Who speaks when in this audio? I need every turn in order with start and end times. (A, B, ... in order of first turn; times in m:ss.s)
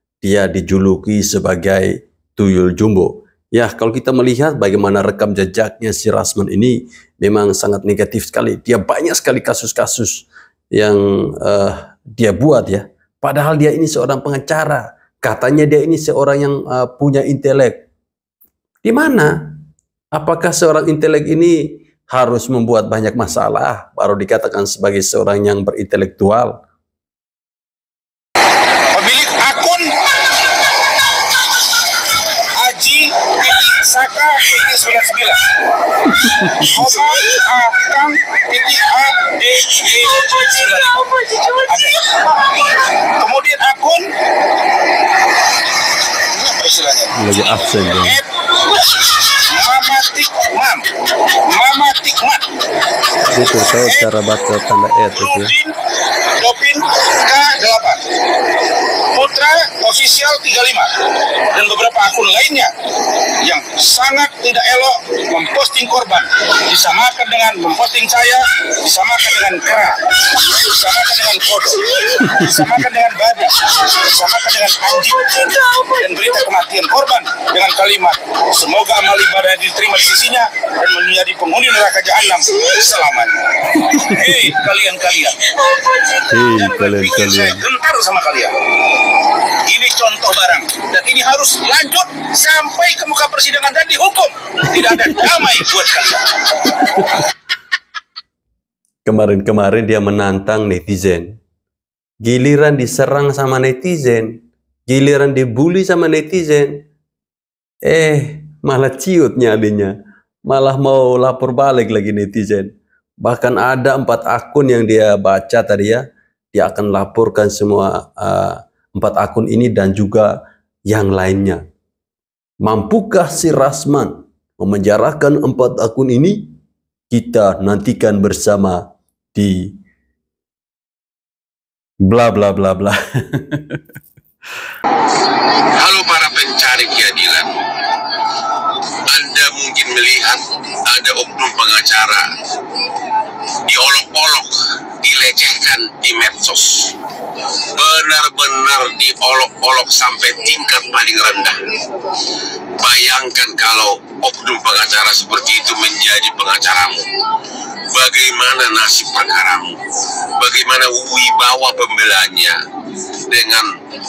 0:00.2-0:17.8 A
0:18.8-0:19.6 A
0:20.2-0:26.6 A
0:28.9-0:29.9 B
0:32.6-0:35.4 B
0:36.2-0:36.7 A
0:36.6-0:42.5 B
0:43.1-0:44.1 B
0:46.3-0:48.2 B
0:47.2-0:48.2 A
0:48.8-0:50.8 B
0:51.5-0:52.5 B
0:53.3-0:55.5 A
0:53.8-0:54.1 B
0:55.2-0:55.7 B
0:56.4-0:58.0 B
0:59.1-1:00.9 B
1:01.5-1:02.7 B
1:03.4-1:25.4 B
1:26.3-1:27.6 A
1:26.5-1:28.5 B
1:29.7-1:36.2 B
1:39.0-1:41.4 A
1:42.2-1:44.3 A
1:44.9-1:46.8 A
1:47.8-1:49.9 A
1:50.5-1:52.7 A
1:53.2-1:56.0 A
1:56.5-2:00.3 A
2:00.9-2:01.6 A
2:02.6-2:06.5 A
2:07.1-2:09.7 A
2:12.0-2:13.8 A
2:15.8-2:17.5 C
2:19.1-2:22.3 C
2:23.7-2:26.9 C
2:27.8-2:31.6 C
2:32.8-2:37.1 C
2:37.9-2:39.8 C
2:40.4-2:42.6 C
2:43.3-2:43.8 C